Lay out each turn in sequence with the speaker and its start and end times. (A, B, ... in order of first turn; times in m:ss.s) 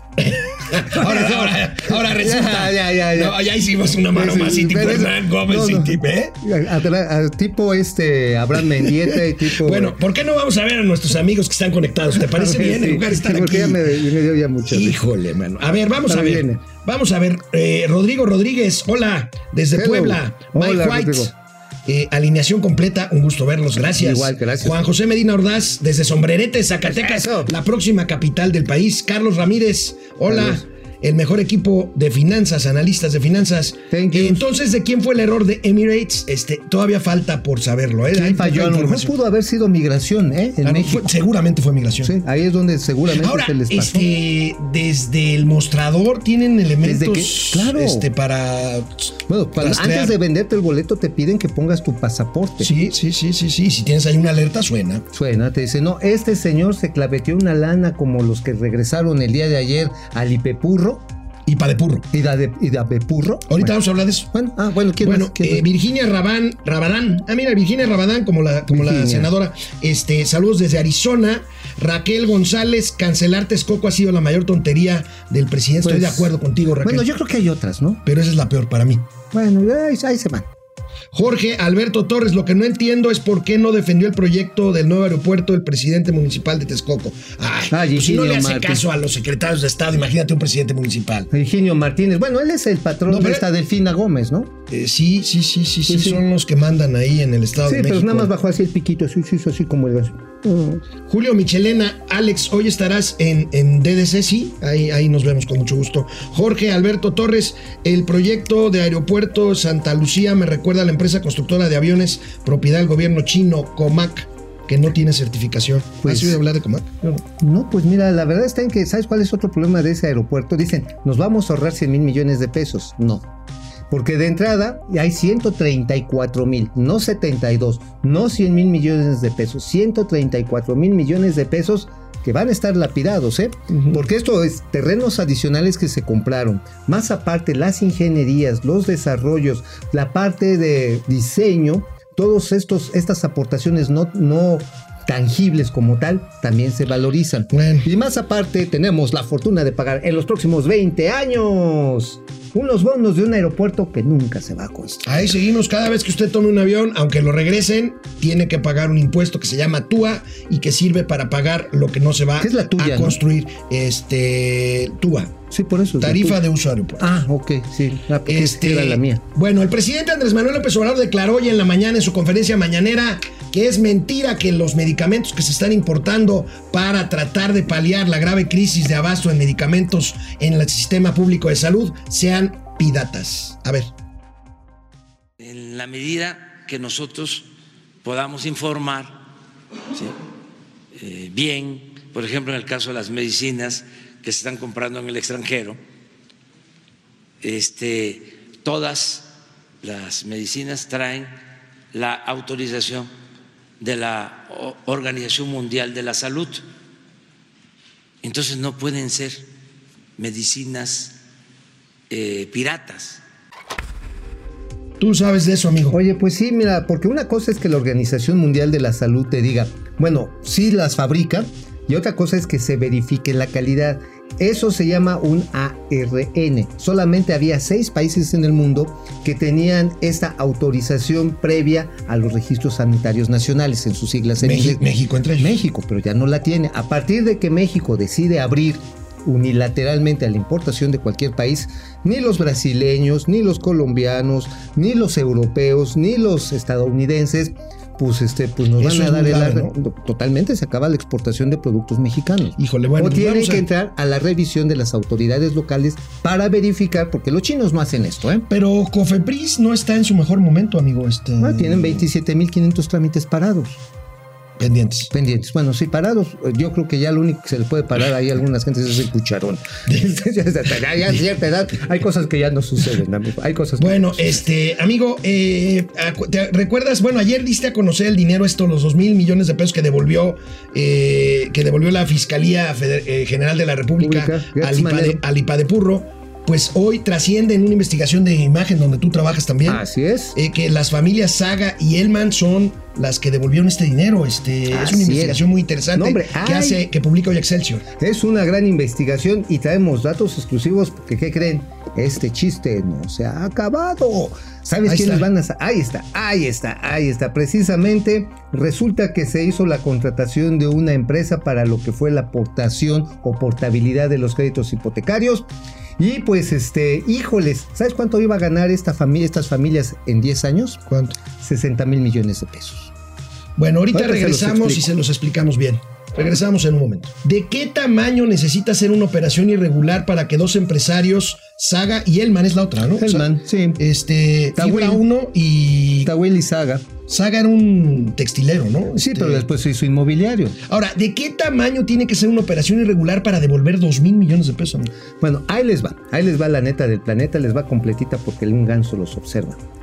0:00.2-0:06.3 A
0:00.9-0:03.4 B
0:04.1-0:10.0 B
0:08.8-0:13.9 A
0:12.2-0:15.0 B
0:14.6-0:21.3 A
0:16.1-0:16.6 B
0:19.7-0:21.3 B
0:21.9-0:39.1 A
0:24.0-0:24.8 B
0:26.9-0:27.5 B
0:30.3-0:30.6 B
0:33.9-0:34.4 B
0:38.1-0:41.1 B
0:40.6-0:42.2 A
0:42.0-0:44.1 B
0:43.1-0:50.2 A
0:46.8-0:48.1 B
0:49.3-0:52.7 B
0:52.6-0:55.1 A
0:55.1-1:01.1 B
1:01.5-1:02.1 A
1:02.1-1:03.8 B
1:03.5-1:04.3 A
1:04.3-1:05.6 B
1:05.0-1:17.1 A
1:08.7-1:09.3 B
1:15.8-1:18.0 B
1:18.1-1:19.1 A
1:19.3-1:20.5 B
1:21.1-1:31.3 A
1:27.7-1:28.8 B
1:31.3-1:34.5 B
1:33.1-1:33.5 A
1:34.7-1:38.3 A
1:35.9-1:36.2 B
1:37.6-1:40.8 B
1:41.1-1:57.2 A
1:56.0-1:56.4 B
1:57.4-2:03.3 B
2:03.9-2:35.1 B
2:13.7-2:14.0 A
2:27.5-2:27.9 A
2:35.1-2:45.4 A
2:42.4-2:43.2 B
2:45.5-2:46.4 B
2:46.0-2:47.2 A
2:47.0-2:49.2 B
2:48.3-3:03.9 A
3:05.4-3:07.5 C
3:08.0-3:09.2 C
3:09.9-3:10.2 C
3:10.9-3:15.8 C
3:17.4-3:19.3 C
3:19.8-3:21.3 C
3:21.9-3:23.1 C
3:23.8-3:26.6 C
3:28.2-3:29.5 C
3:30.2-3:31.2 C
3:32.1-3:33.2 C
3:35.0-3:36.0 A
3:35.9-3:54.8 B
3:54.4-3:55.6 A
3:55.4-4:18.5 B
4:08.8-4:09.7 A
4:12.6-4:13.6 A
4:18.5-4:22.1 A
4:21.4-4:23.8 B
4:24.6-4:25.1 A
4:25.1-4:34.4 B
4:29.9-4:30.2 A
4:33.8-4:49.8 A
4:44.0-4:45.2 B
4:49.7-4:50.4 B
4:50.4-4:57.8 A
4:54.7-4:55.4 B
4:56.0-4:56.8 B
4:58.0-5:15.5 B
5:04.9-5:05.3 A
5:16.0-5:22.9 B
5:20.9-5:21.2 A
5:23.6-5:36.1 A
5:23.9-5:24.9 B
5:33.0-5:33.8 B
5:34.6-5:35.0 B
5:36.0-5:36.9 B
5:37.1-5:39.5 A
5:39.0-5:40.6 B
5:40.7-5:44.9 A
5:45.2-5:49.6 B